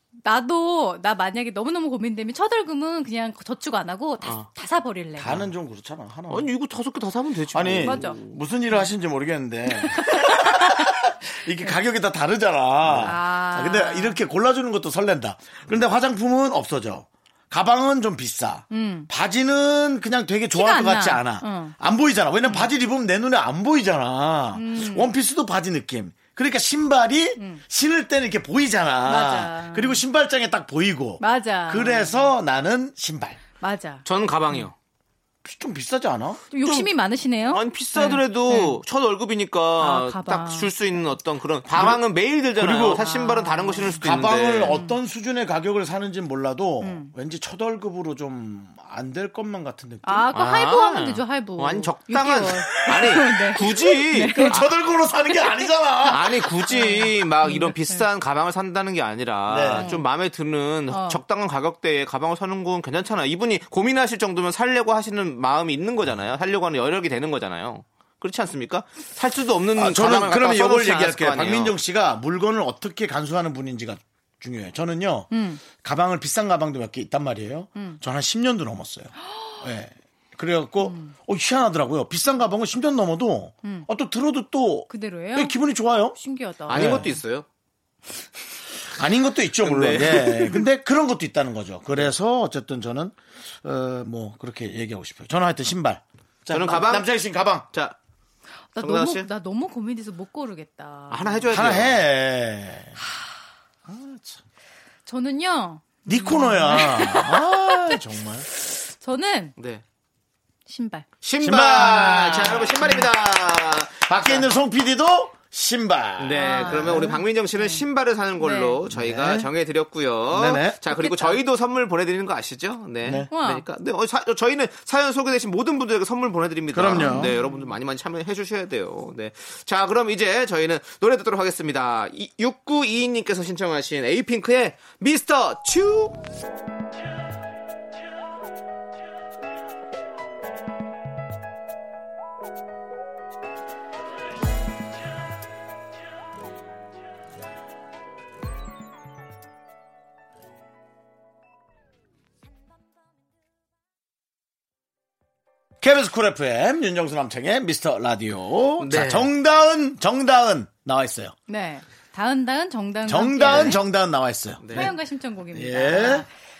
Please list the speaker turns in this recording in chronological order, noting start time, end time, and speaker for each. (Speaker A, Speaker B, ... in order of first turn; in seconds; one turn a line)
Speaker A: 0.2-5.4
Speaker B: 5.2-6.5
Speaker C: 6.3-8.3
Speaker B: 7.5-33.4
Speaker A: 7.8-8.2
Speaker A: 9.8-11.0
Speaker C: 12.8-13.1
Speaker A: 13.0-14.2
Speaker A: 18.7-19.1
Speaker A: 20.5-21.8
Speaker A: 24.5-25.1
Speaker A: 29.0-30.0
Speaker A: 31.2-32.3
Speaker A: 33.6-34.6
Speaker C: 34.0-34.7
Speaker B: 35.4-36.5
Speaker A: 36.5-38.8
Speaker C: 37.5-44.8
Speaker A: 39.8-40.7
Speaker B: 41.7-42.0
Speaker B: 42.5-43.0
Speaker A: 42.9-44.0
Speaker B: 44.0-50.3
Speaker A: 44.6-45.0
Speaker A: 46.8-47.1
Speaker A: 50.0-54.6
Speaker C: 50.3-54.6
Speaker B: 54.3-56.4
Speaker C: 56.1-71.7
Speaker A: 56.7-58.0
Speaker B: 59.5-59.9
Speaker A: 59.7-60.0
Speaker A: 60.9-61.2
Speaker B: 69.7-86.2
Speaker A: 75.3-75.6
Speaker A: 80.8-81.1
Speaker A: 84.9-85.6
Speaker A: 86.1-87.1
Speaker C: 86.7-87.5
Speaker B: 86.7-87.1
Speaker B: 88.9-97.7
Speaker C: 89.6-90.6
Speaker C: 96.5-97.1
Speaker C: 97.7-98.0
Speaker A: 98.7-101.5
Speaker C: 98.8-99.3
Speaker C: 101.1-102.0
Speaker B: 101.5-103.0
Speaker B: 103.8-104.4
Speaker A: 105.0-108.0
Speaker B: 106.0-108.5
Speaker A: 108.6-109.5
Speaker C: 109.6-109.8
Speaker A: 110.7-111.1
Speaker C: 111.2-114.5
Speaker B: 111.4-113.0
Speaker A: 112.0-112.9
Speaker B: 114.0-117.2
Speaker C: 116.2-136.2
Speaker A: 116.3-117.8
Speaker A: 118.4-118.8
Speaker B: 118.9-119.5
Speaker B: 120.3-120.8
Speaker A: 120.9-121.4
Speaker B: 123.0-123.3
Speaker A: 123.3-123.6
Speaker B: 126.7-127.3
Speaker A: 126.9-127.7
Speaker B: 155.8-161.3
Speaker C: 158.8-159.3
Speaker A: 161.5-163.8
Speaker B: 163.1-164.9
Speaker C: 163.4-163.7
Speaker C: 164.6-164.9
Speaker A: 164.7-166.3
Speaker B: 165.5-166.2